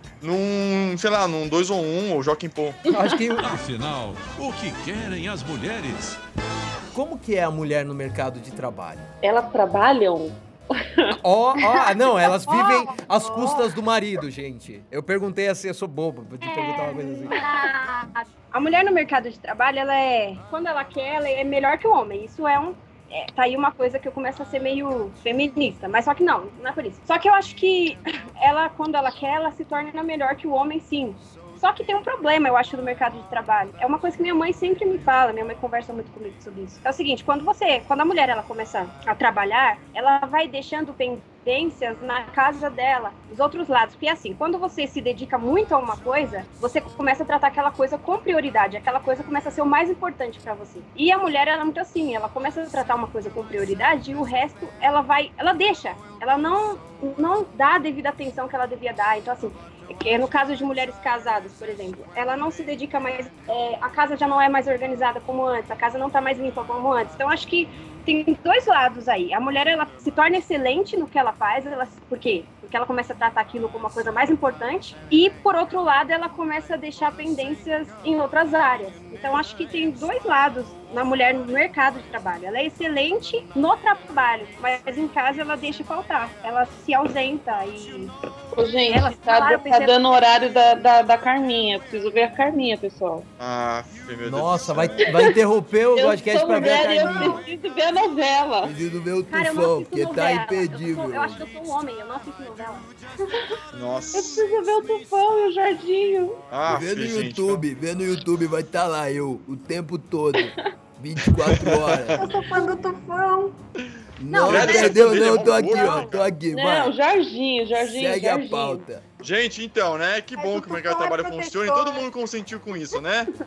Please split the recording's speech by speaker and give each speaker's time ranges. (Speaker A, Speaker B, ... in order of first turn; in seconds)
Speaker A: 0.2-2.8, 93.4-95.1, 103.7-104.4, 106.5-107.6, 111.4-112.2, 114.4-116.4, 119.2-123.3
Speaker B: 2.9-3.6, 6.9-9.1, 11.2-17.4, 94.2-97.4, 98.6-101.5, 106.7-112.2, 114.2-116.9, 117.8-119.0
Speaker C: 2.9-3.3, 9.2-11.2, 88.5-93.3, 96.0-98.7, 104.1-106.4, 116.5-118.8
Speaker D: 3.4-6.2
Speaker E: 12.5-13.7, 112.1-113.6, 114.3-114.8, 120.4-122.1
Speaker F: 16.4-88.1, 88.9-90.5, 99.3-102.9, 114.6-115.0, 115.8-116.0